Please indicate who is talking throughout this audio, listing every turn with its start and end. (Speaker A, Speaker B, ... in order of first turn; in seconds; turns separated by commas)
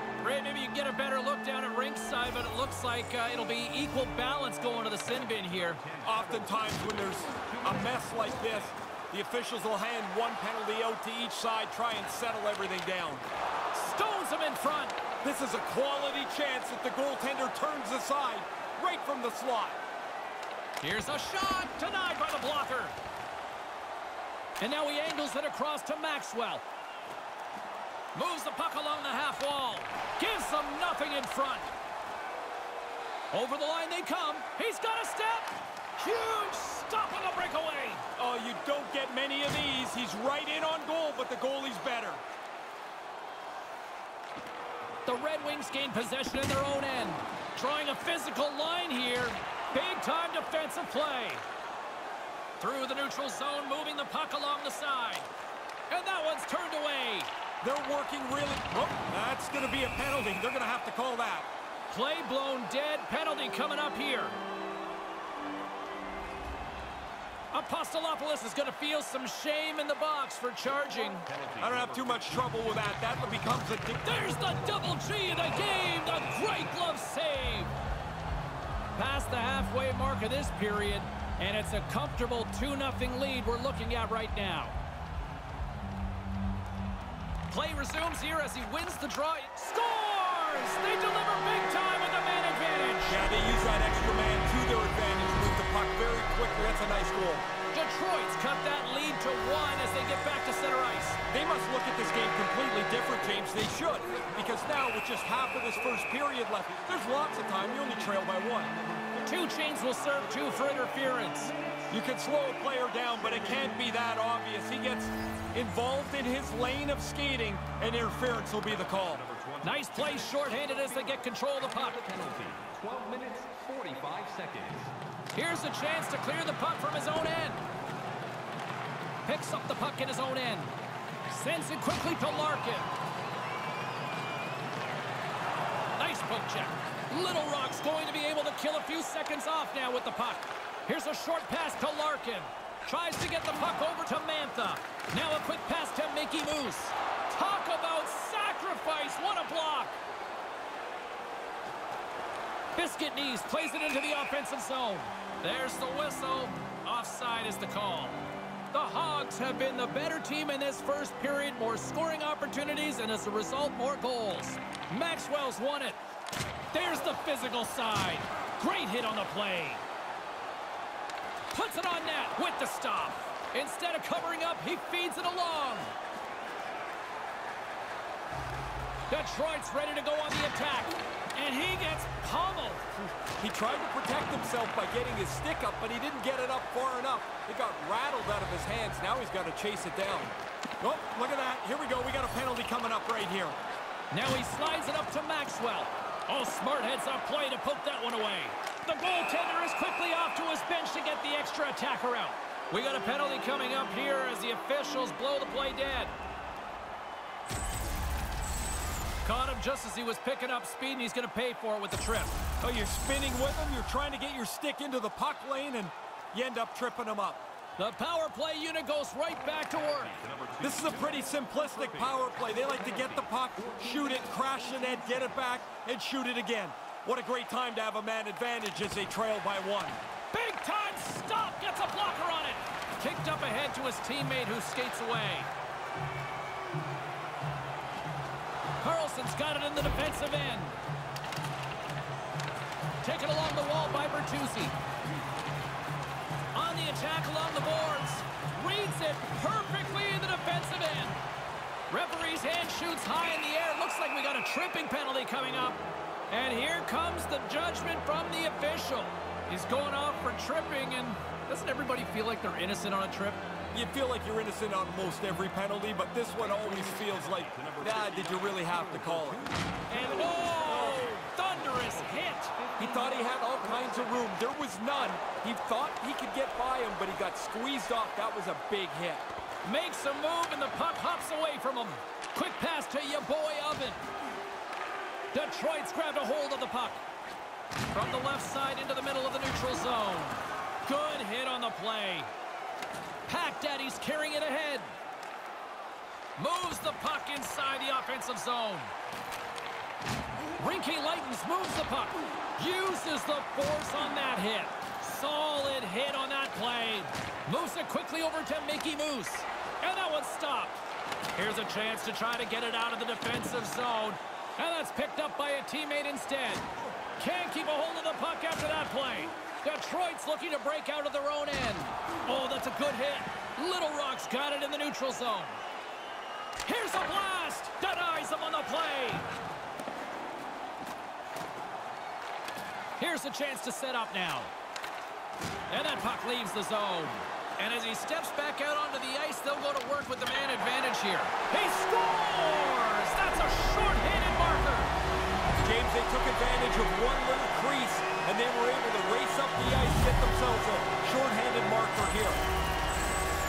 Speaker A: 0.2-5.8, Speaker B: 5.4-8.7, Speaker C: 6.0-13.2, Speaker A: 13.7-15.0, Speaker C: 15.2-19.8, Speaker A: 20.8-22.9, Speaker A: 24.6-26.6, Speaker A: 28.1-31.7, Speaker A: 33.3-38.0, Speaker C: 38.1-42.2, Speaker A: 45.0-51.4, Speaker A: 52.6-55.3, Speaker A: 55.9-57.3, Speaker C: 57.6-61.5, Speaker A: 61.9-64.4, Speaker A: 67.5-71.2, Speaker B: 71.2-72.6, Speaker C: 71.6-74.3, Speaker A: 74.0-77.7, Speaker A: 79.0-84.8, Speaker A: 87.5-93.2, Speaker C: 93.0-97.5, Speaker A: 97.7-101.2, Speaker C: 101.3-108.8, Speaker B: 104.0-109.3, Speaker A: 109.2-111.5, Speaker B: 110.3-110.7, Speaker B: 111.3-112.0, Speaker C: 111.9-119.2, Speaker B: 113.1-113.8, Speaker B: 118.6-124.9, Speaker A: 119.6-122.0, Speaker A: 125.3-127.6, Speaker A: 129.2-130.7, Speaker A: 131.3-132.9, Speaker A: 136.0-149.9, Speaker A: 152.8-166.0, Speaker A: 166.7-169.8, Speaker A: 171.5-175.9, Speaker A: 179.1-182.9, Speaker C: 183.4-193.6, Speaker A: 194.1-206.1, Speaker A: 209.2-212.4, Speaker C: 212.6-217.4, Speaker A: 217.8-220.2, Speaker B: 219.5-225.6, Speaker C: 220.6-230.0, Speaker A: 230.3-235.5, Speaker A: 238.8-240.8, Speaker A: 243.0-244.7, Speaker A: 246.5-251.2, Speaker A: 251.9-263.4, Speaker C: 263.7-269.4, Speaker B: 266.3-274.4, Speaker A: 269.9-272.5, Speaker C: 270.6-271.1, Speaker C: 272.8-279.2, Speaker A: 279.6-284.0, Speaker A: 285.3-287.0, Speaker A: 287.9-292.3, Speaker A: 293.2-294.9, Speaker A: 296.4-298.9, Speaker A: 300.6-310.8, Speaker A: 311.3-325.6, Speaker A: 326.6-329.3, Speaker A: 333.0-334.5, Speaker A: 335.7-344.9, Speaker C: 345.6-352.4